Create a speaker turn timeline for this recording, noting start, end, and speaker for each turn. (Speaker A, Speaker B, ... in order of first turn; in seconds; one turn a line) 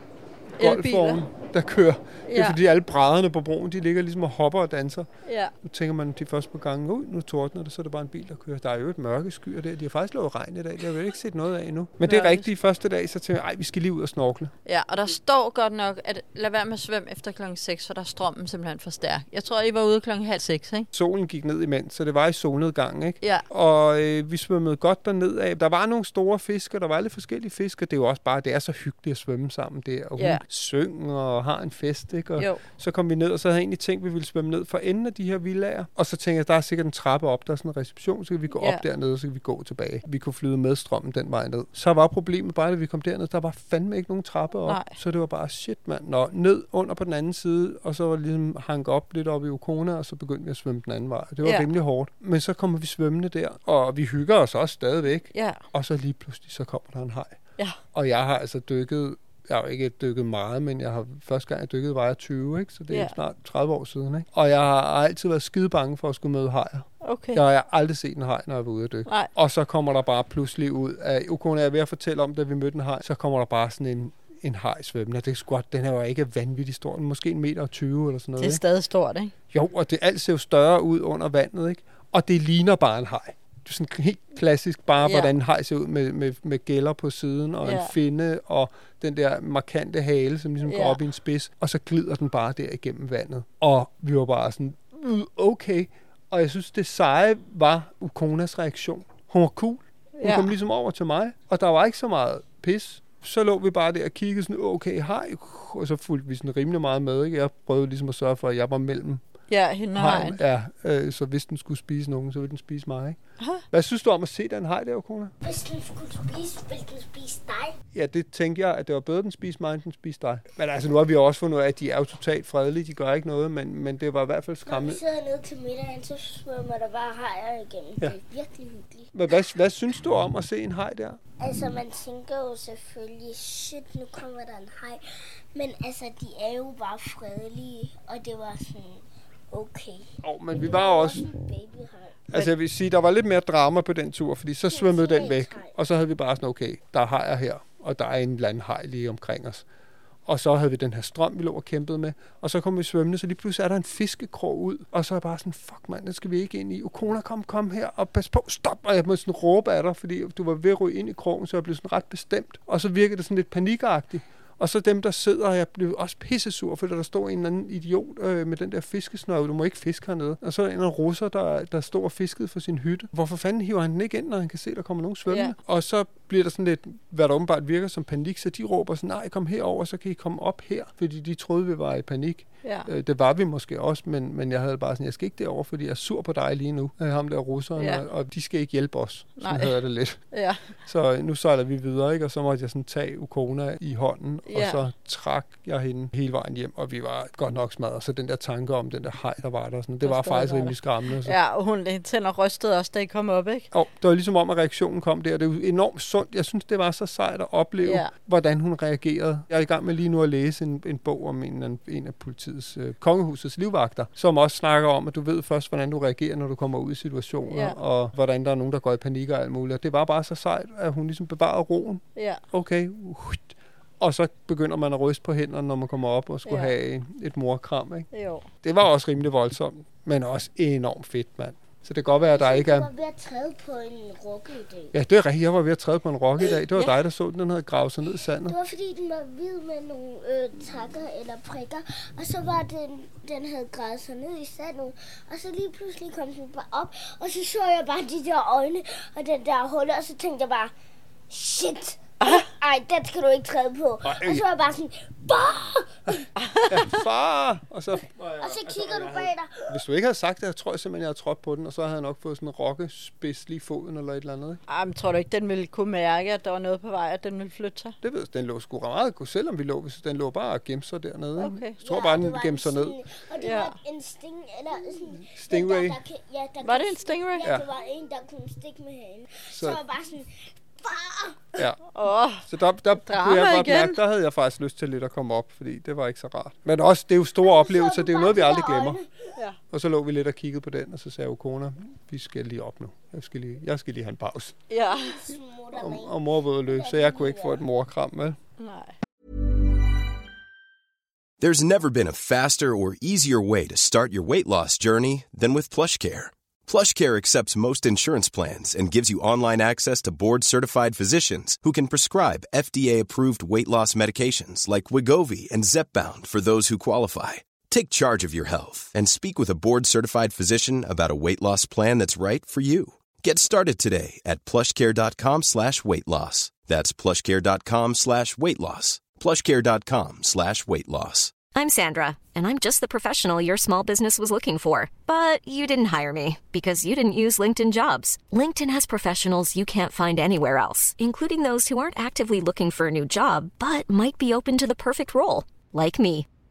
Speaker A: 0.6-5.1
Speaker B: 0.6-1.2
Speaker B: 2.3-2.6
Speaker B: 5.2-5.5
Speaker A: 5.6-14.5
Speaker B: 12.0-12.5
Speaker B: 14.7-20.9
Speaker A: 20.9-57.4
Speaker B: 30.2-30.4
Speaker B: 32.4-32.6
Speaker B: 38.5-38.8
Speaker B: 44.7-44.9
Speaker B: 55.3-55.6
Speaker A: 57.9-78.6
Speaker B: 67.0-67.4
Speaker B: 78.4-79.3
Speaker A: 79.5-109.2
Speaker B: 85.0-85.3
Speaker B: 87.6-87.9
Speaker B: 90.7-91.0
Speaker B: 100.2-100.5
Speaker B: 109.5-110.4
Speaker A: 109.9-113.2
Speaker A: 113.7-115.3
Speaker C: 115.4-117.8
Speaker A: 117.9-125.0
Speaker C: 124.7-129.4
Speaker A: 129.1-131.2
Speaker C: 131.4-142.2
Speaker A: 140.2-141.3
Speaker A: 142.3-149.7
Speaker C: 144.7-145.7
Speaker A: 150.3-190.2
Speaker B: 175.3-175.6
Speaker B: 182.6-182.9
Speaker B: 187.8-188.0
Speaker B: 189.4-189.8
Speaker B: 190.3-190.6
Speaker A: 190.8-201.4
Speaker B: 194.5-194.8
Speaker B: 200.1-203.7
Speaker A: 203.7-228.1
Speaker B: 207.8-208.1
Speaker B: 217.5-217.8
Speaker B: 222.2-222.4
Speaker B: 226.4-226.7
Speaker B: 228.1-228.5
Speaker A: 228.6-232.9
Speaker C: 232.1-234.9
Speaker A: 234.9-238.6
Speaker C: 238.4-250.7
Speaker C: 251.3-256.2
Speaker B: 252.2-252.5
Speaker A: 254.0-254.5
Speaker A: 256.1-264.6
Speaker B: 256.4-256.9
Speaker C: 258.2-259.7
Speaker B: 264.7-268.0
Speaker A: 268.0-273.0
Speaker B: 271.4-271.8
Speaker C: 271.8-281.5
Speaker B: 273.4-273.8
Speaker A: 275.3-276.0
Speaker B: 276.6-277.5
Speaker A: 279.5-279.8
Speaker A: 281.6-281.8
Speaker B: 281.9-282.5
Speaker A: 282.4-289.0
Speaker B: 283.1-284.0
Speaker C: 287.4-289.1
Speaker A: 289.7-294.6
Speaker B: 294.7-295.3
Speaker C: 294.9-296.1
Speaker A: 295.7-298.4
Speaker C: 296.7-297.6
Speaker B: 298.6-298.9
Speaker D: 301.4-331.4
Speaker E: 331.5-346.3